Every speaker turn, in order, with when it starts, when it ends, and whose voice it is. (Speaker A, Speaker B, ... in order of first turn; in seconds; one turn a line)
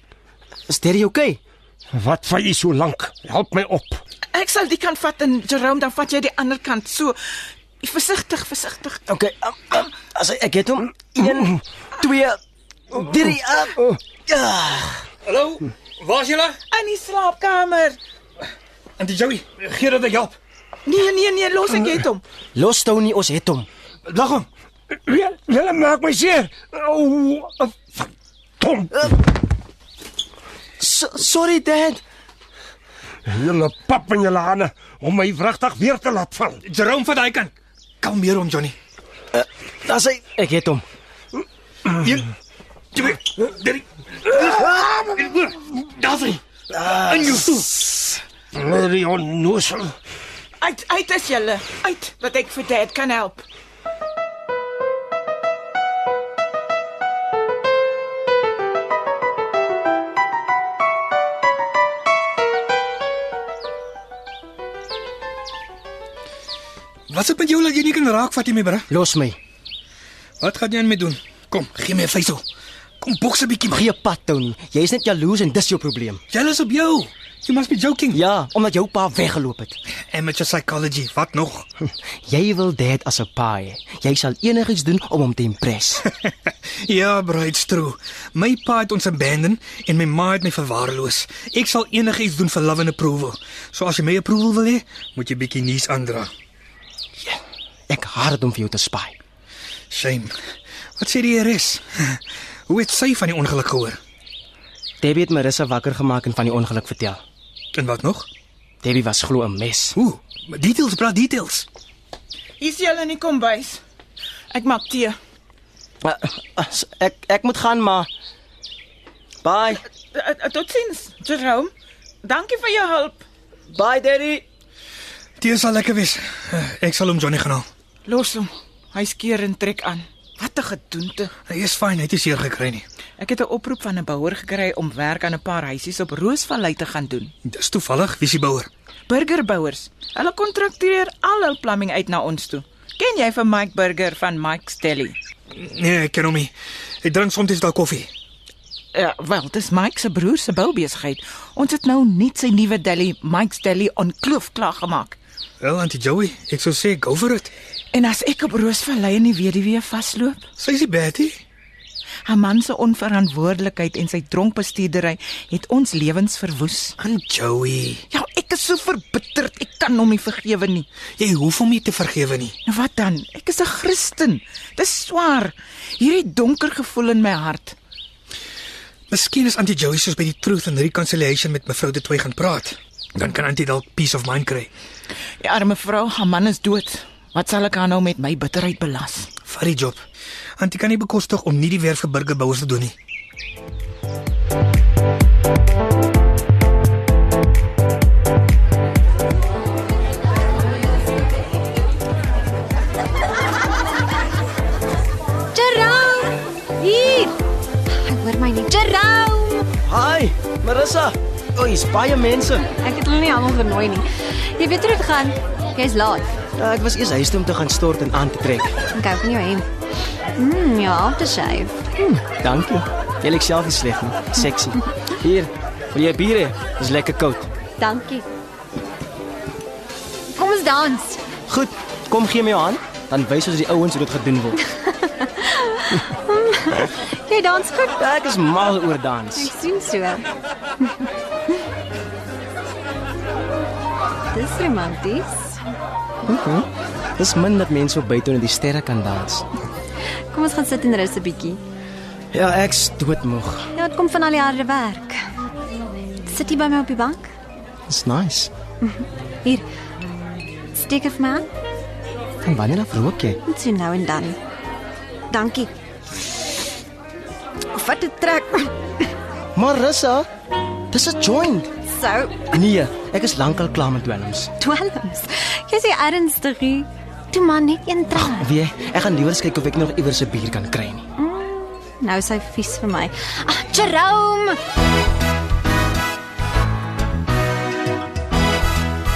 Speaker A: 0.7-1.4
Speaker B: 1.9-4.0
Speaker C: 4.3-7.2
Speaker C: 7.8-9.0
Speaker A: 9.1-15.1
Speaker D: 15.2-16.6
Speaker C: 16.7-18.0
Speaker D: 19.0-20.4
Speaker C: 20.9-22.2
Speaker A: 22.6-23.7
Speaker D: 24.1-24.5
Speaker B: 25.1-28.1
Speaker B: 28.6-29.0
Speaker A: 30.8-32.0
Speaker B: 33.3-36.6
Speaker D: 36.6-38.8
Speaker A: 39.3-40.9
Speaker D: 42.0-42.3
Speaker D: 42.9-47.9
Speaker B: 48.5-50.0
Speaker C: 50.6-53.5
Speaker D: 67.1-68.9
Speaker A: 68.9-69.4
Speaker D: 70.4-72.4
Speaker D: 73.0-73.9
Speaker A: 73.7-76.2
Speaker D: 76.3-78.2
Speaker A: 78.1-79.8
Speaker D: 80.1-81.7
Speaker A: 82.0-86.1
Speaker D: 86.0-96.3
Speaker A: 97.2-99.2
Speaker D: 99.9-100.3
Speaker D: 101.0-104.0
Speaker A: 105.0-107.2
Speaker D: 107.7-108.3
Speaker A: 108.8-110.0
Speaker D: 110.0-111.7
Speaker C: 112.6-113.8
Speaker C: 114.5-115.2
Speaker A: 116.0-118.1
Speaker A: 119.4-119.8
Speaker C: 120.1-121.7
Speaker C: 122.2-123.2
Speaker A: 123.7-124.5
Speaker D: 125.4-127.7
Speaker C: 128.1-131.3
Speaker D: 131.5-132.8
Speaker C: 133.2-137.3
Speaker D: 137.4-138.7
Speaker C: 139.1-145.2
Speaker D: 145.5-148.1
Speaker C: 148.9-155.2
Speaker D: 155.6-157.5
Speaker C: 157.9-160.4
Speaker D: 160.6-161.4
Speaker C: 162.3-166.9
Speaker D: 167.0-168.1
Speaker C: 168.1-170.9
Speaker D: 171.2-172.6
Speaker C: 172.7-177.8
Speaker D: 179.1-184.7
Speaker C: 185.4-189.3
Speaker D: 189.4-190.1
Speaker D: 190.6-193.0
Speaker E: 205.5-207.3
Speaker E: 207.9-209.7
Speaker A: 209.8-212.7
Speaker E: 212.7-216.4
Speaker A: 216.6-218.8
Speaker E: 218.9-219.7
Speaker E: 220.4-221.8
Speaker A: 222.0-227.5
Speaker E: 227.8-228.3
Speaker E: 230.3-231.2
Speaker A: 231.5-234.6
Speaker E: 234.7-238.0
Speaker A: 238.0-239.5
Speaker E: 239.3-240.2
Speaker E: 244.3-245.6
Speaker A: 246.2-249.4
Speaker E: 250.3-251.6
Speaker A: 252.3-253.7
Speaker E: 253.7-255.2
Speaker E: 256.2-257.3
Speaker A: 257.9-258.5
Speaker E: 258.8-259.6
Speaker E: 260.7-261.5
Speaker A: 262.4-263.4
Speaker E: 263.4-264.4
Speaker E: 265.3-265.7
Speaker E: 267.7-268.8
Speaker A: 269.6-270.3
Speaker A: 270.9-271.7
Speaker E: 271.9-272.6
Speaker A: 272.5-274.5
Speaker E: 274.6-278.5
Speaker A: 278.1-281.1
Speaker E: 281.2-284.6